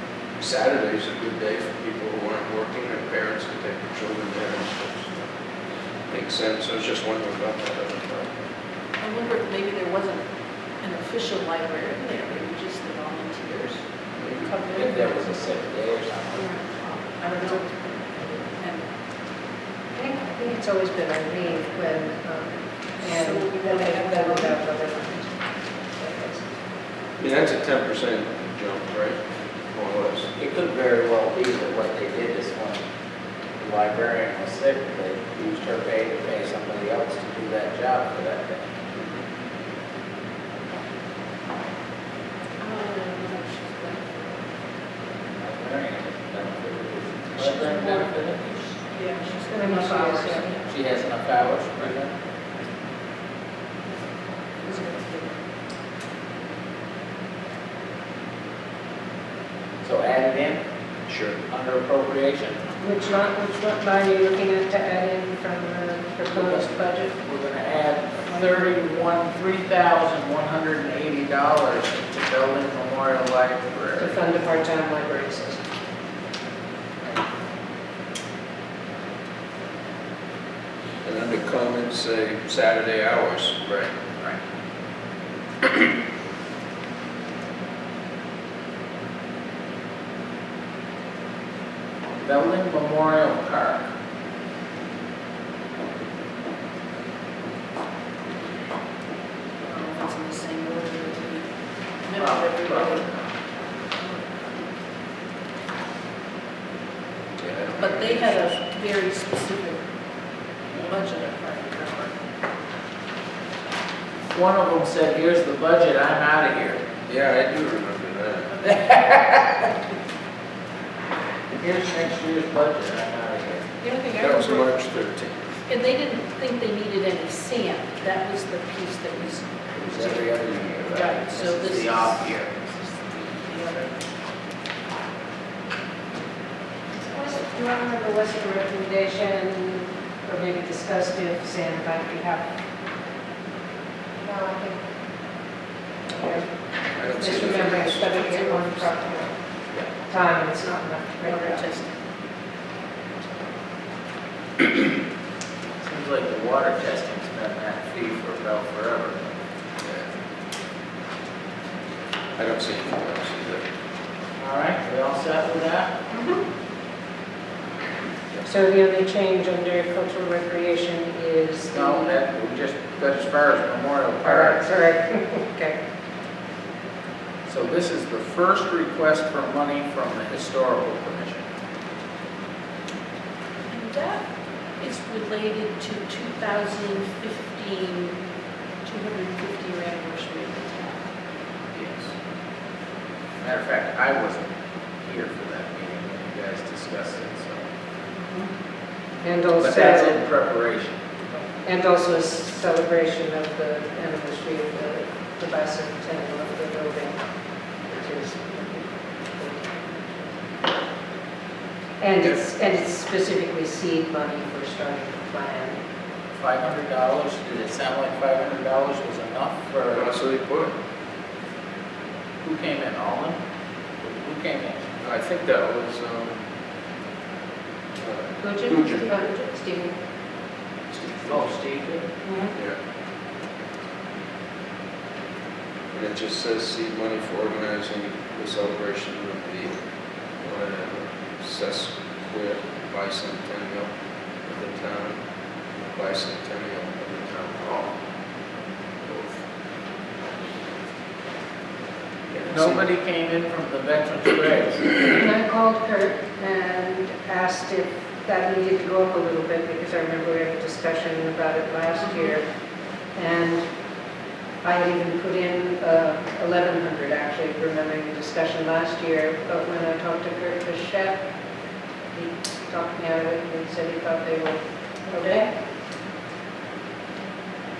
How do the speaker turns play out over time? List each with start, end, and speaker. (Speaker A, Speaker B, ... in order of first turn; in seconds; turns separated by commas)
Speaker A: 0.4-5.3, Speaker A: 6.1-8.3, Speaker B: 9.0-10.2, Speaker B: 10.8-13.8, Speaker A: 14.1-14.5, Speaker B: 14.4-15.3, Speaker C: 14.7-16.6, Speaker B: 17.2-17.9, Speaker B: 18.6-18.9, Speaker D: 19.9-26.6, Speaker B: 23.0-24.6, Speaker A: 27.2-29.2, Speaker A: 29.7-30.3, Speaker C: 30.4-32.8, Speaker C: 33.6-38.6, Speaker A: 38.9-39.2, Speaker B: 42.6-44.2, Speaker C: 45.3-48.4, Speaker B: 47.4-50.7, Speaker D: 49.5-50.5, Speaker C: 50.7-52.1, Speaker B: 54.6-55.4, Speaker C: 59.8-60.6, Speaker A: 61.1-61.4, Speaker C: 61.5-62.6, Speaker D: 62.8-67.2, Speaker C: 66.3-74.2, Speaker D: 74.0-75.6, Speaker A: 81.0-83.9, Speaker C: 92.2-93.9, Speaker B: 99.7-101.5, Speaker B: 102.1-103.1, Speaker C: 102.2-103.2, Speaker A: 107.4-108.6, Speaker B: 107.8-109.8, Speaker B: 110.8-112.2, Speaker C: 114.3-116.8, Speaker A: 117.1-118.8, Speaker C: 118.9-119.4, Speaker C: 121.5-123.7, Speaker B: 123.8-124.7, Speaker A: 124.2-125.5, Speaker B: 125.7-130.1, Speaker C: 129.8-132.6, Speaker B: 130.9-133.9, Speaker D: 137.0-142.5, Speaker D: 144.2-144.8, Speaker D: 146.1-146.5, Speaker A: 146.9-148.5, Speaker D: 147.1-149.3, Speaker D: 150.1-151.7, Speaker B: 151.2-151.9, Speaker C: 155.8-159.3, Speaker A: 162.4-163.7, Speaker C: 164.4-165.9, Speaker D: 168.5-172.2, Speaker C: 171.7-174.7, Speaker D: 174.2-175.8, Speaker C: 177.5-181.4, Speaker B: 183.7-184.2, Speaker B: 184.8-188.2, Speaker B: 188.8-191.0, Speaker C: 193.4-194.4, Speaker C: 195.0-197.6, Speaker D: 199.2-200.2, Speaker C: 199.6-201.0, Speaker D: 201.6-207.2, Speaker D: 207.9-210.3, Speaker D: 212.0-215.8, Speaker C: 216.4-220.1, Speaker A: 219.9-220.7, Speaker C: 222.4-223.4, Speaker C: 224.0-224.9, Speaker A: 225.0-226.4, Speaker A: 228.0-229.2, Speaker D: 228.4-230.0, Speaker A: 230.9-231.4, Speaker C: 231.3-232.1, Speaker D: 232.2-232.5, Speaker A: 235.9-239.8, Speaker A: 240.4-243.9, Speaker A: 244.4-245.2, Speaker A: 245.8-247.9, Speaker A: 249.0-249.4, Speaker A: 252.3-252.8, Speaker C: 252.5-254.9, Speaker D: 255.0-262.5, Speaker D: 263.1-263.6, Speaker D: 264.6-271.2, Speaker D: 272.1-275.5, Speaker B: 275.2-275.4